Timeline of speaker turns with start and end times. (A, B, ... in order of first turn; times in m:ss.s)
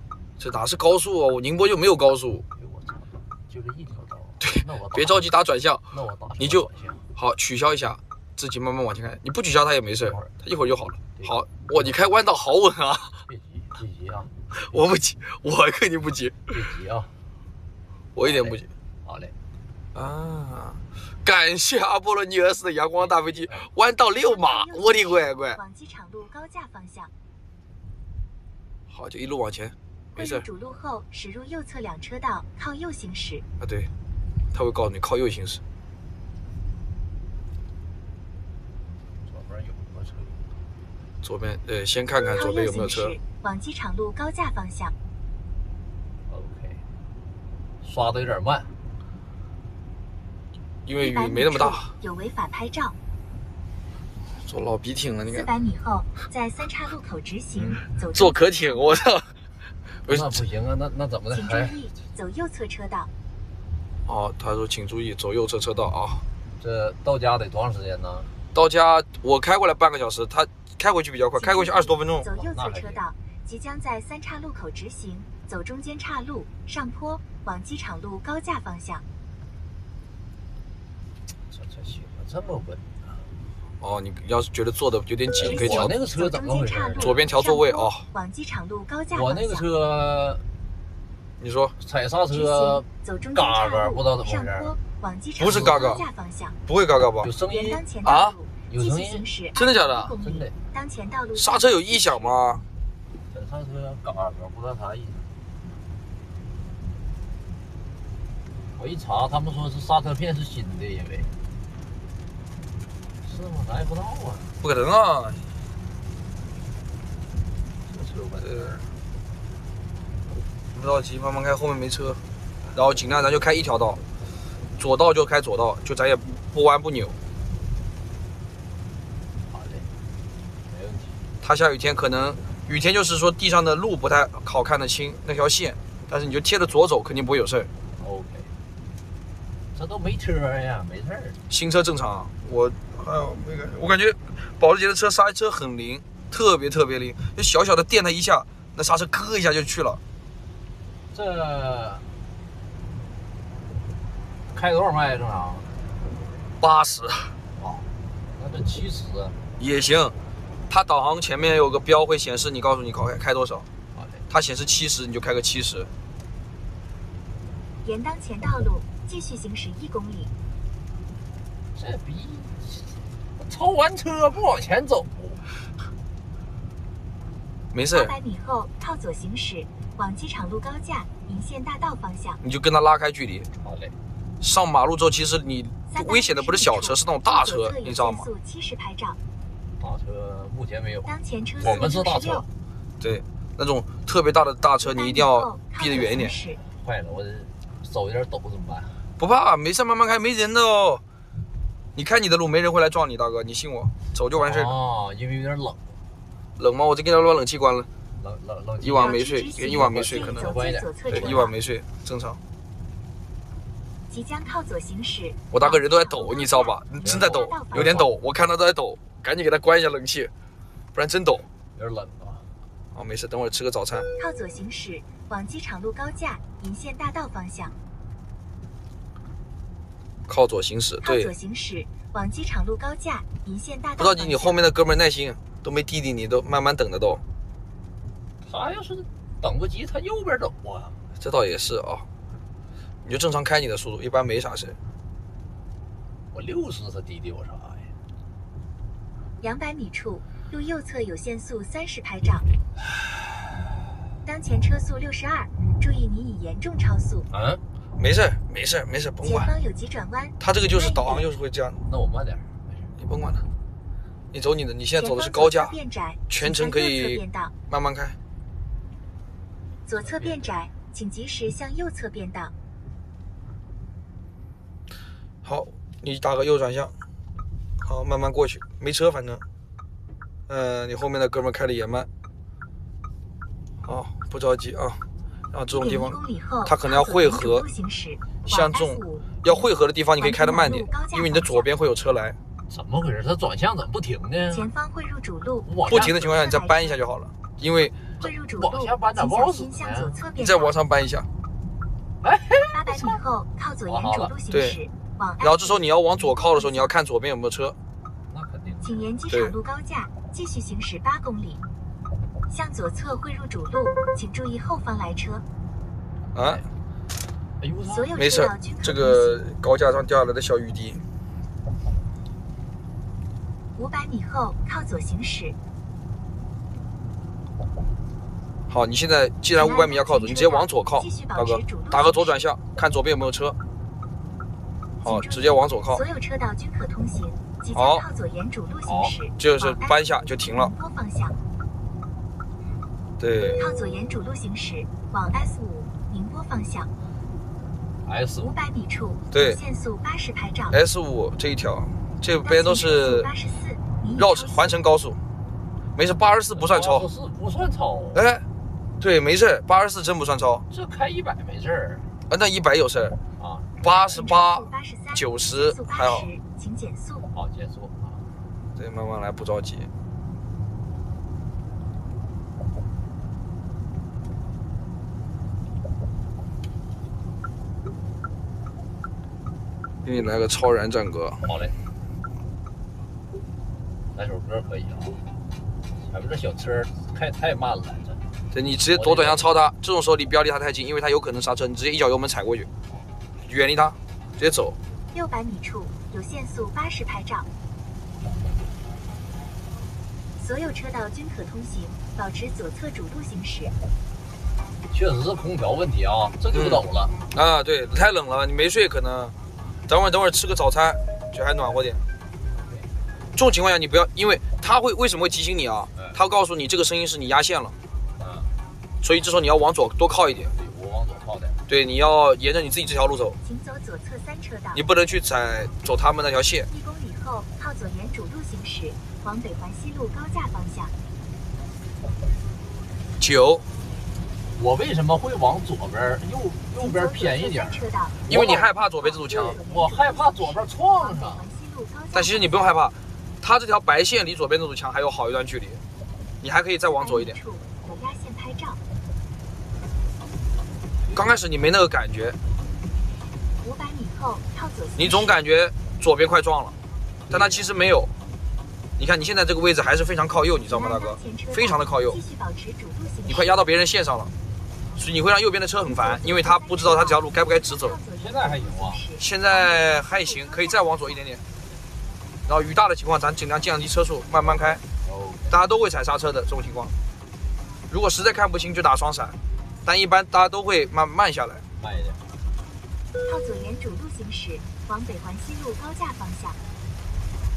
0:00.4-0:02.4 A
0:02.6-0:05.3 B
0:04.4-0:05.8 A
0:05.9-0:07.0 B
0:06.4-0:13.2 A
0:10.0-0:10.4 B
0:11.2-0:12.0 B
0:13.3-0:14.8 B
0:14.6-0:16.6 A
0:16.5-0:17.1 B
0:18.1-0:18.7 A
0:18.2-0:19.4 B
0:19.9-0:25.6 A
0:23.0-0:23.7 B
0:24.1-0:27.1 C
0:28.9-0:30.4 A
0:30.2-0:33.4 C
0:33.6-0:33.9 A
0:34.5-0:35.6 A
0:39.2-0:40.4 B
0:41.2-0:43.1 A
0:42.4-0:44.9 C
0:46.3-0:46.8 B
0:47.8-0:48.7 B
0:50.8-0:51.9 A
0:51.0-0:53.0 C
0:54.4-0:55.5 A
0:55.3-0:59.0 C
0:57.6-0:59.3 A
1:00.0-1:00.4 A
1:00.1-1:01.8 B
1:01.3-1:03.1 C
1:04.0-1:06.2 A
1:06.6-1:08.3 B
1:08.5-1:12.3 A
1:11.4-1:19.0 C
1:12.3-1:13.0 B
1:21.5-1:23.2 B
1:23.8-1:25.9 A
1:25.4-1:27.2 B
1:25.4-1:29.7 C
1:27.0-1:28.0 A
1:29.1-1:30.4 B
1:31.4-1:31.7 A
1:31.8-1:34.7 B
1:32.3-1:36.6 C
1:35.4-1:36.0 A
1:35.4-1:36.0 B
1:36.7-1:37.3 A
1:37.2-1:37.8 B
1:37.4-1:42.4 C
1:38.0-1:38.4 A
1:38.7-1:39.2 B
1:39.5-1:40.1 A
1:40.2-1:40.5 B
1:41.4-1:42.6 A
1:43.3-1:45.3 B
1:48.8-1:51.3 B
1:53.2-1:54.5 B
1:54.6-1:55.4 A
1:57.9-1:58.8 B
1:58.4-1:58.8 A
2:00.7-2:02.2 A
2:02.6-2:03.1 B
2:02.8-2:04.0 A
2:04.8-2:07.1 A
2:09.5-2:09.9 B
2:10.7-2:11.3 B
2:11.4-2:17.7 A
2:18.0-2:18.5 B
2:19.8-2:21.4 B
2:21.5-2:30.0 A
2:31.1-2:32.1 B
2:34.5-2:35.7 B
2:36.6-2:37.4 A
2:37.6-2:37.8 B
2:38.4-2:39.4 B
2:39.6-2:40.1 A
2:40.7-2:43.6 A
2:43.9-2:44.2 B
2:44.3-2:45.9 A
2:47.8-2:50.3 C
2:51.7-2:55.4 B
2:57.7-2:58.1 A
2:57.9-3:02.4 C
3:02.4-3:03.5 A
3:03.6-3:03.9 B
3:04.4-3:08.3 A
3:05.9-3:09.2 C
3:09.8-3:12.5 B
3:11.1-3:12.4 C
3:13.0-3:16.4 A
3:14.8-3:16.6 C
3:16.6-3:19.0 B
3:19.2-3:21.0 A
3:22.0-3:24.7 A
3:24.3-3:25.9 B
3:26.6-3:27.9 A
3:28.2-3:31.5 B
3:28.8-3:30.5 A
3:29.0-3:31.6 C
3:31.1-3:32.4 A
3:34.1-3:38.1 C
3:35.5-3:40.3 A
3:37.0-3:38.1 B
3:40.9-3:41.4 A
3:41.7-3:42.5 B
3:42.9-3:44.1 A
3:44.2-3:47.7 C
3:50.3-3:51.3 A
3:51.0-3:54.6 C
3:54.0-3:57.2 A
3:58.4-4:01.0 B
4:01.2-4:02.0 A
4:03.0-4:04.8 A
4:06.3-4:07.9 B
4:09.4-4:12.4 C
4:14.2-4:17.3 C
4:17.3-4:17.6 B
4:18.0-4:19.5 A
4:19.2-4:21.3 C
4:20.4-4:21.8 A
4:21.9-4:22.9 B
4:23.0-4:23.4 A
4:24.3-4:25.7 A
4:25.0-4:27.5 C
4:26.3-4:28.2 A
4:29.9-4:32.5 C
4:30.0-4:30.6 B
4:35.4-4:36.9 A
4:37.8-4:39.4 A
4:40.5-4:42.1 A
4:43.8-4:45.0 A
4:45.5-4:47.7 A
4:45.7-4:49.6 C
4:48.4-4:52.4 A
4:50.2-4:51.7 C
4:52.7-4:54.7 B
4:54.5-4:57.0 C
4:55.6-4:56.2 B
4:55.9-4:58.0 A
4:58.2-5:00.8 C
4:58.2-5:00.2 B
5:00.4-5:01.3 A
5:02.2-5:03.2 B
5:02.7-5:06.9 C
5:03.9-5:04.3 B
5:04.5-5:04.8 A
5:05.4-5:07.8 A
5:08.3-5:09.1 B
5:08.8-5:11.6 C
5:12.5-5:15.4 C
5:16.4-5:16.6 A
5:16.4-5:16.6 B
5:17.6-5:18.1 B
5:17.9-5:19.4 C
5:18.2-5:21.0 A
5:23.8-5:25.6 C
5:28.7-5:33.6 A
5:29.6-5:32.4 C
5:35.0-5:36.0 A
5:35.0-5:41.4 C
5:37.7-5:38.0 A
5:38.9-5:39.2 B
5:39.4-5:40.7 A
5:43.2-5:43.6 A
5:43.6-5:46.9 C
5:48.0-5:48.5 B
5:48.4-5:50.8 C
5:49.3-5:49.6 A
5:50.7-5:53.3 A
5:52.4-5:54.7 C
5:54.2-5:55.2 A
5:56.0-5:57.1 A
5:56.5-5:58.2 B
5:58.1-5:58.4 A
5:59.0-6:00.6 A
6:00.7-6:02.1 B
6:02.3-6:03.2 A
6:03.4-6:04.2 B
6:03.8-6:06.3 A
6:04.1-6:07.3 C
6:07.3-6:08.2 B
6:08.8-6:09.9 A
6:20.0-6:21.4 A
6:21.4-6:21.7 B
6:24.1-6:25.2 B
6:26.0-6:28.2 B
6:28.5-6:32.7 A
6:28.9-6:29.5 B
6:33.5-6:34.8 A
6:35.1-6:37.5 C
6:40.4-6:43.7 C
6:44.9-6:47.1 B
6:46.5-6:49.4 A
6:49.9-6:52.0 A
6:52.5-6:52.9 B
6:53.4-6:57.7 A
6:58.2-6:58.5 B
6:59.0-7:00.5 A
7:00.4-7:01.6 B
7:01.7-7:03.4 A
7:03.4-7:04.8 C
7:04.7-7:06.7 A
7:06.7-7:10.9 C
7:13.2-7:13.6 A
7:14.6-7:18.7 B
7:16.8-7:22.8 C
7:18.3-7:19.6 A
7:19.3-7:21.4 B
7:22.1-7:25.8 A
7:26.4-7:27.4 A
7:26.9-7:28.8 C
7:31.1-7:32.4 A
7:33.6-7:35.4 C
7:35.0-7:36.7 A
7:37.3-7:37.7 B
7:37.3-7:38.1 A
7:39.0-7:42.2 A
7:40.7-7:43.6 C
7:43.3-7:44.3 A
7:45.0-7:48.0 A
7:45.9-7:51.2 C
7:48.2-7:49.0 B
7:49.2-7:51.4 A
7:52.5-7:54.8 A
7:54.4-7:55.6 B
7:55.5-7:56.9 A
7:57.9-8:01.6 A
8:01.8-8:02.2 B
8:03.2-8:06.6 C